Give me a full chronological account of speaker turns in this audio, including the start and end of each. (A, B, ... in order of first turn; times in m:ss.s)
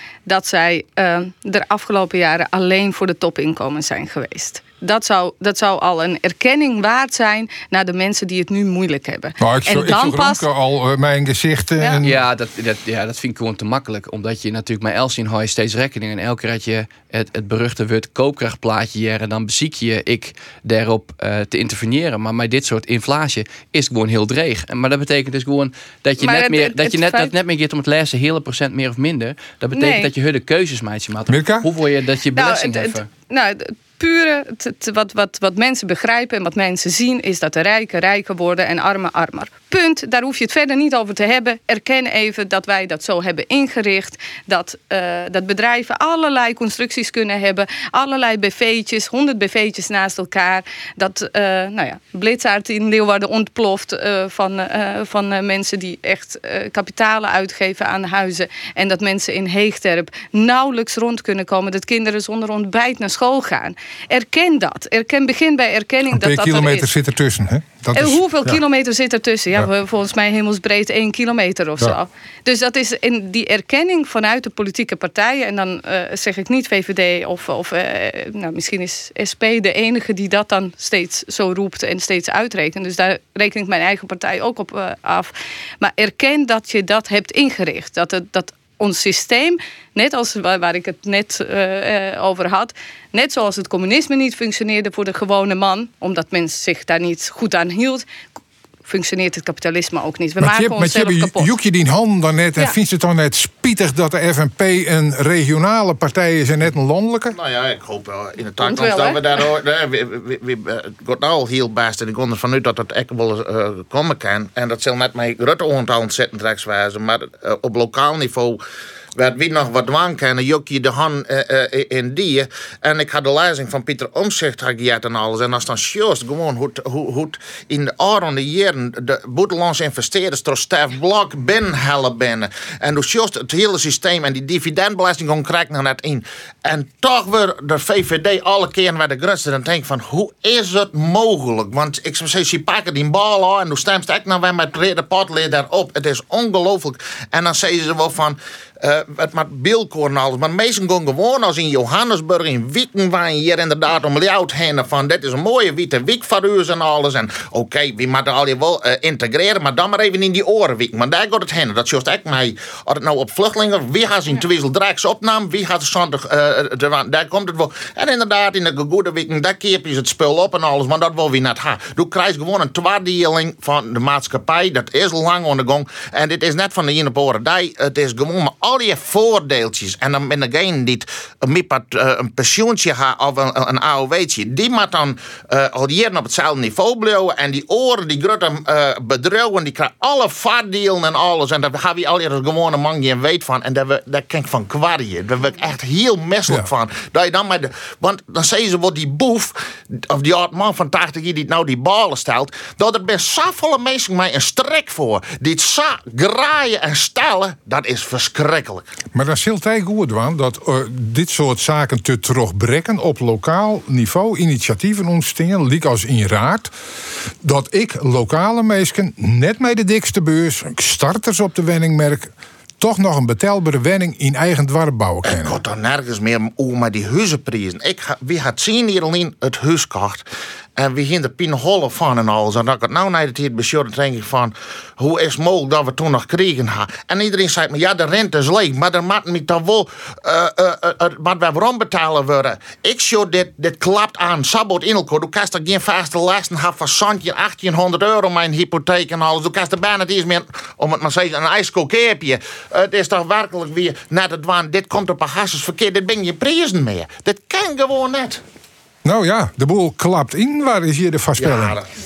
0:00.2-0:10.4 A
0:09.4-0:12.2 B
0:12.0-0:33.1 C
0:26.2-0:27.3 A
0:29.7-0:30.1 A
0:31.3-0:31.7 B
0:32.3-1:06.9 A
1:06.1-1:08.6 B
1:07.9-1:38.0 A
1:38.8-1:41.5 A
1:40.4-1:47.4 B
1:47.3-1:58.6 D
1:48.6-1:49.4 A
1:59.2-3:28.8 D
3:29.1-3:36.7 B
3:37.4-3:45.6 B
3:45.2-3:50.2 D
3:50.8-4:18.4 D
4:19.0-4:21.8 B
4:21.4-4:21.9 D